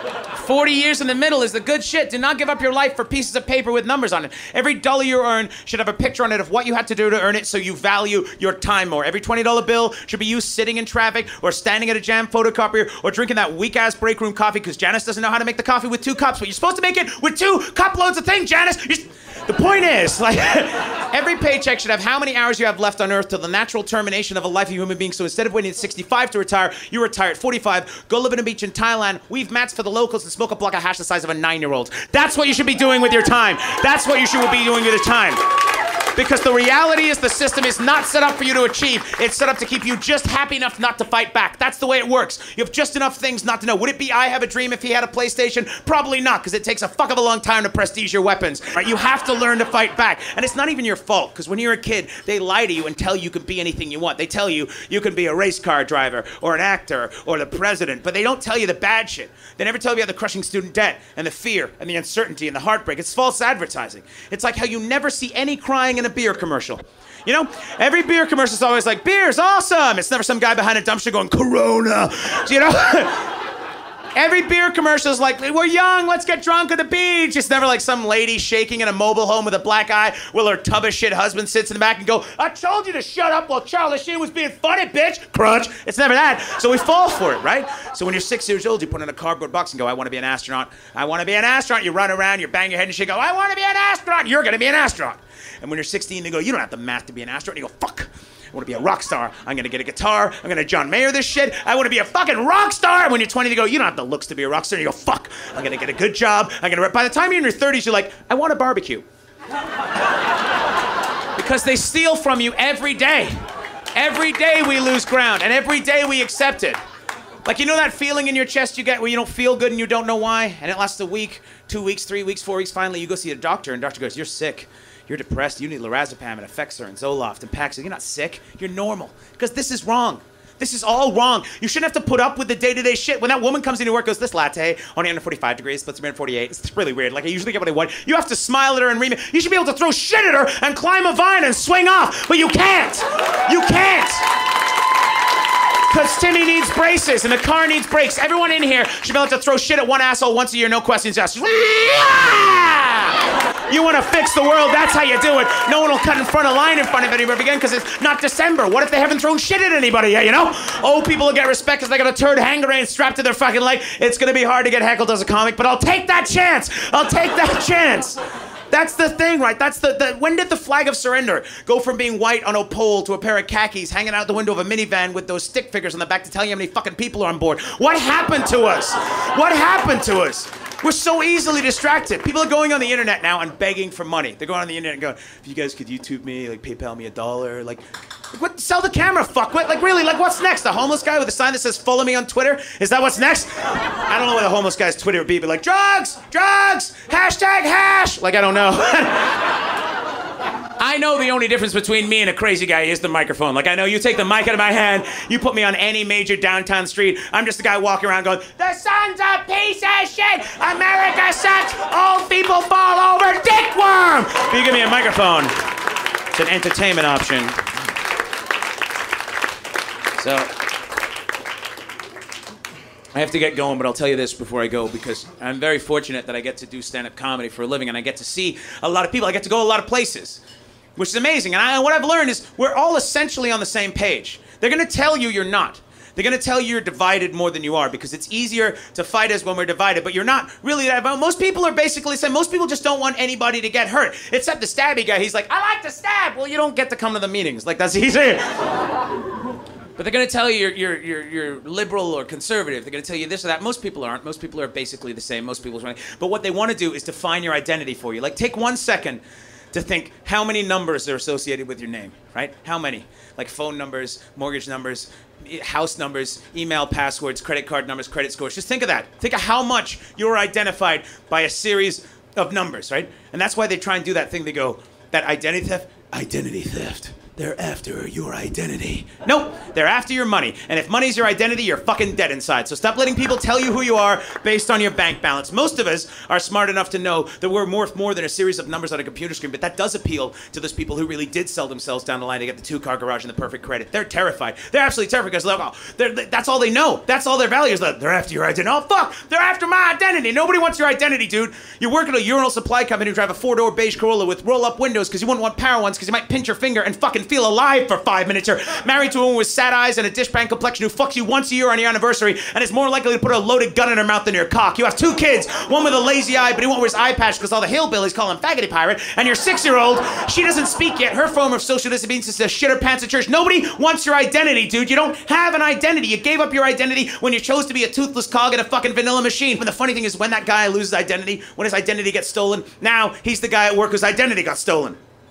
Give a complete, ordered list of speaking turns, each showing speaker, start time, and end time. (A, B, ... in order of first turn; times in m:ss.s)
0:00.3-0:35.4 A
0:36.1-1:13.3 A
1:14.1-1:49.0 A
1:51.4-1:53.4 A
1:53.9-1:56.8 A
1:57.4-2:24.3 A
2:25.9-2:48.2 A
2:48.7-3:19.4 A
3:20.8-3:35.5 A
3:36.3-3:37.6 A
3:40.2-3:40.5 A
3:43.1-3:50.4 A
3:51.0-4:08.5 A
4:10.0-5:35.0 A